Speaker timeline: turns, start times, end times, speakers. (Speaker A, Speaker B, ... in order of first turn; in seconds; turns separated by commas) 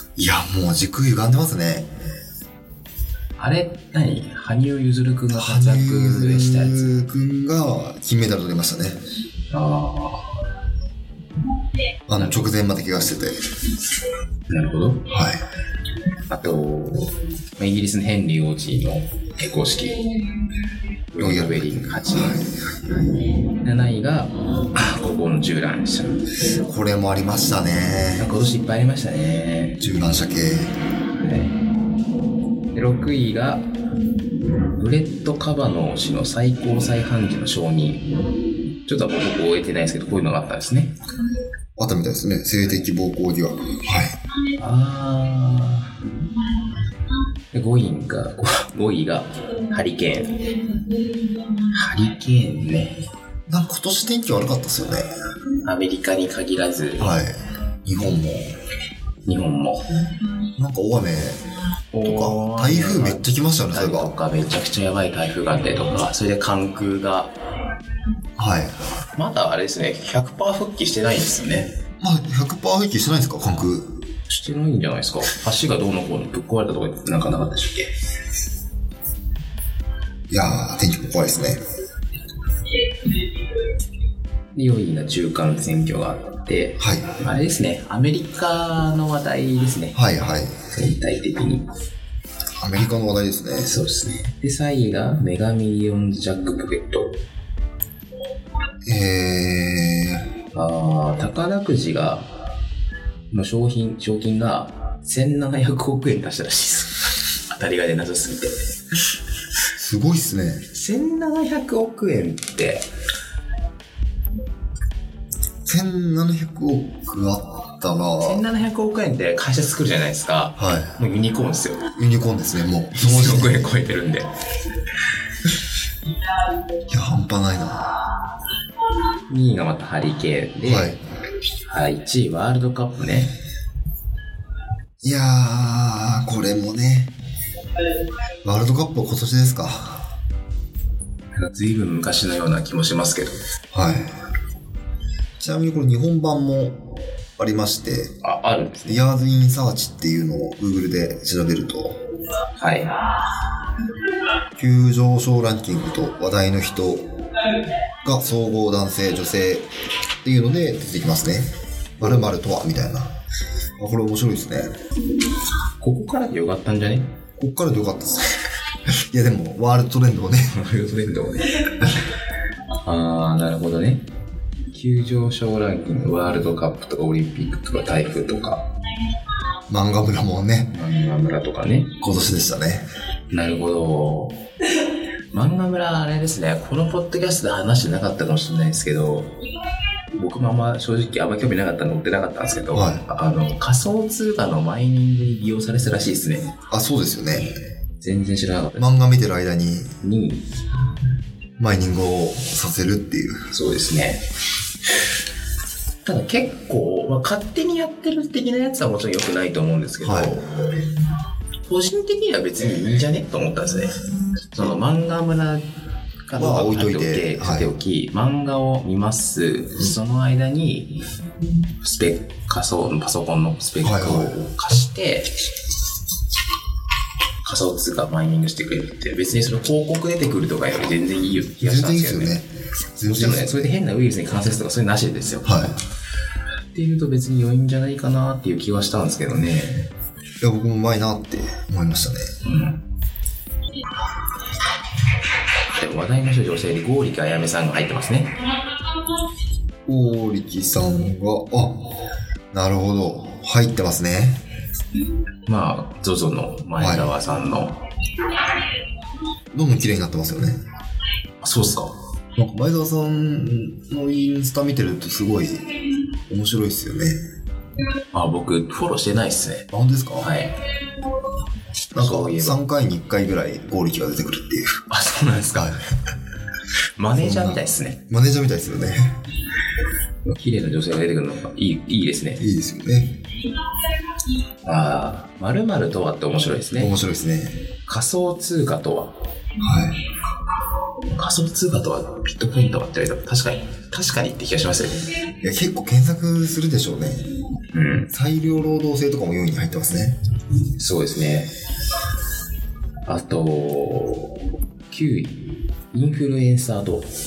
Speaker A: 0.2-1.9, Speaker B: 3.4-6.9, Speaker A: 5.3-9.0, Speaker B: 9.5-10.3, Speaker A: 12.1-13.6, Speaker B: 12.1-12.5, Speaker B: 14.5-15.1, Speaker A: 15.1-15.4, Speaker B: 16.3-20.1, Speaker B: 21.1-22.5, Speaker A: 21.2-23.3, Speaker B: 23.6-26.2, Speaker A: 26.6-28.3, Speaker B: 28.2-29.8, Speaker A: 29.8-30.7, Speaker B: 31.1-31.6, Speaker B: 32.7-33.6, Speaker B: 34.7-38.1, Speaker B: 38.9-41.0, Speaker A: 41.8-44.1, Speaker B: 44.6-46.1, Speaker B: 47.5-50.6, Speaker B: 51.5-53.0, Speaker A: 53.5-55.1, Speaker B: 55.6-57.1, Speaker A: 57.0-58.6, Speaker B: 59.3-59.9, Speaker A: 60.6-61.4, Speaker B: 61.9-67.3, Speaker A: 62.0-64.1, Speaker A: 68.4-68.8, Speaker B: 69.1-71.8, Speaker A: 72.0-74.0, Speaker B: 74.3-77.9, Speaker A: 80.3-81.6, Speaker B: 84.5-90.0, Speaker A: 86.8-87.2, Speaker A: 89.9-90.5, Speaker B: 90.7-91.7, Speaker A: 92.6-93.8, Speaker B: 93.6-97.2, Speaker A: 98.8-100.3, Speaker B: 100.5-102.3, Speaker B: 103.3-108.5, Speaker A: 109.8-110.6, Speaker B: 110.7-112.9, Speaker A: 115.7-118.4, Speaker B: 118.2-121.9, Speaker A: 120.6-121.0, Speaker A: 122.0-123.7, Speaker B: 123.0-124.3, Speaker A: 126.9-128.1, Speaker B: 129.3-130.9, Speaker A: 130.6-131.0, Speaker B: 131.7-133.3, Speaker A: 135.0-137.1, Speaker A: 138.4-140.1, Speaker B: 141.4-143.4, Speaker A: 143.7-144.1, Speaker A: 145.4-148.2, Speaker B: 148.2-149.0, Speaker A: 148.9-152.0, Speaker B: 152.6-153.0, Speaker A: 154.6-157.1, Speaker A: 158.0-159.7, Speaker A: 160.2-163.1, Speaker A: 163.8-164.8, Speaker B: 165.8-167.1, Speaker A: 167.4-170.6, Speaker B: 170.5-172.0, Speaker B: 172.8-174.1, Speaker B: 174.7-178.7, Speaker A: 179.7-180.7, Speaker B: 180.7-181.9, Speaker A: 182.0-182.9, Speaker B: 183.3-184.5, Speaker B: 185.3-189.3, Speaker B: 190.2-196.6, Speaker A: 192.7-193.0, Speaker A: 196.7-197.6, Speaker B: 198.0-198.9, Speaker A: 198.8-199.9, Speaker B: 200.0-200.5, Speaker A: 201.6-203.5, Speaker B: 203.5-204.2, Speaker B: 206.0-210.9, Speaker A: 210.0-210.4, Speaker B: 211.7-214.0, Speaker B: 214.5-215.7, Speaker B: 216.3-221.0, Speaker A: 216.3-217.7, Speaker B: 221.8-225.4, Speaker A: 223.8-224.4, Speaker B: 227.4-232.4, Speaker A: 231.6-233.7, Speaker B: 233.0-235.6, Speaker A: 235.4-235.8, Speaker B: 236.7-239.9, Speaker A: 240.4-242.3, Speaker B: 242.4-242.8, Speaker B: 245.8-248.4, Speaker A: 249.9-251.9, Speaker A: 252.5-254.4, Speaker B: 255.5-257.8, Speaker A: 256.8-257.2, Speaker A: 259.5-260.6, Speaker B: 261.4-262.0, Speaker A: 262.4-265.7, Speaker A: 266.3-267.2, Speaker B: 268.1-269.7, Speaker A: 269.7-270.3, Speaker B: 270.2-270.6, Speaker A: 271.9-274.8, Speaker B: 271.9-272.6, Speaker B: 274.9-275.7, Speaker A: 275.5-275.8, Speaker B: 277.0-278.0, Speaker A: 277.1-279.2, Speaker B: 280.2-282.4, Speaker A: 282.4-283.3, Speaker B: 284.6-286.9, Speaker A: 286.8-287.7, Speaker B: 287.9-289.2, Speaker A: 289.6-290.0, Speaker B: 291.0-295.1, Speaker A: 295.4-297.3, Speaker B: 297.7-298.1, Speaker A: 298.1-300.2, Speaker B: 300.8-301.5, Speaker B: 303.1-307.1